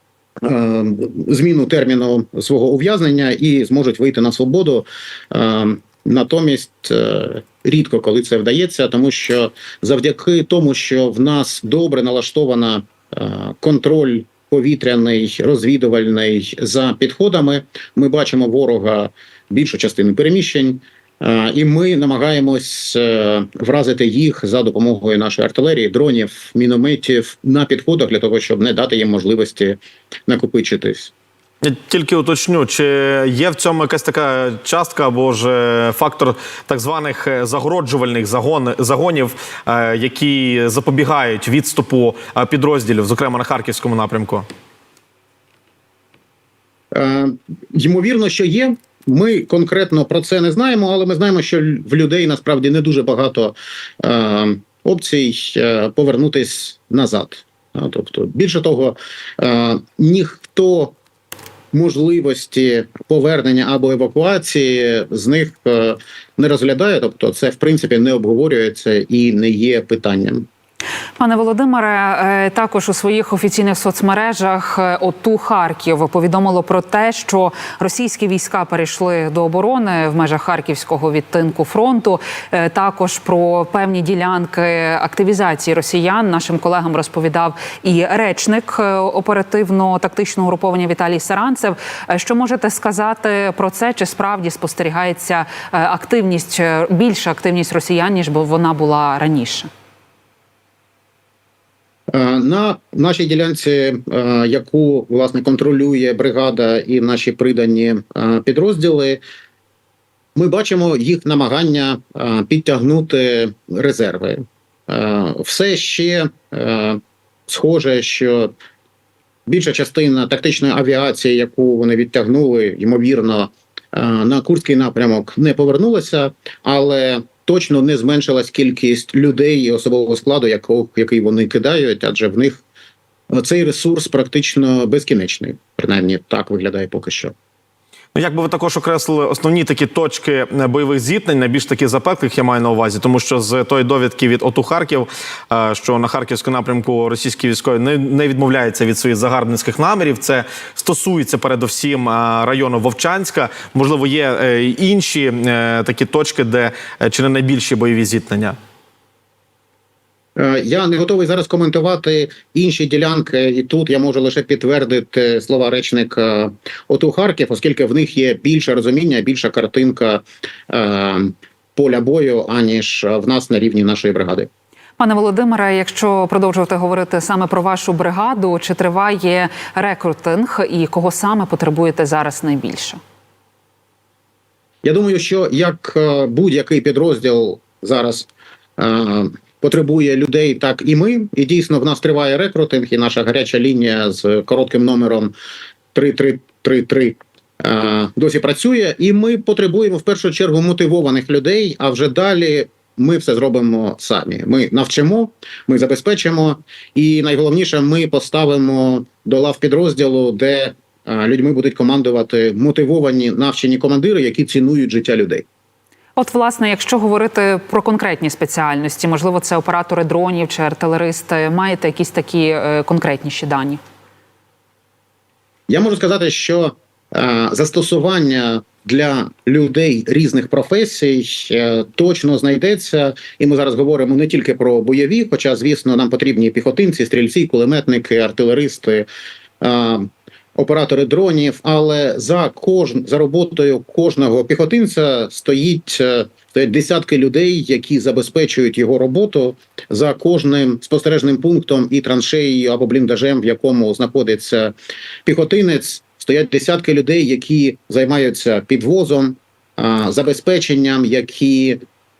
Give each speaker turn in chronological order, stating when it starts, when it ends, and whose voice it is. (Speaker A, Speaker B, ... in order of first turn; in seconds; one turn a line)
Speaker A: 0.4-31.1
Speaker B: 31.6-44.5
Speaker A: 46.9-60.9
Speaker A: 61.7-70.5
Speaker C: 71.2-99.7
Speaker A: 102.1-109.2
Speaker A: 110.3-118.5
Speaker A: 119.5-132.6
Speaker A: 133.3-137.3
Speaker B: 138.1-158.6
Speaker A: 160.3-174.5
Speaker C: 175.0-183.0
Speaker A: 184.8-195.3
Speaker A: 195.9-215.4
Speaker C: 216.2-223.8
Speaker A: 225.7-239.1
Speaker A: 239.6-261.8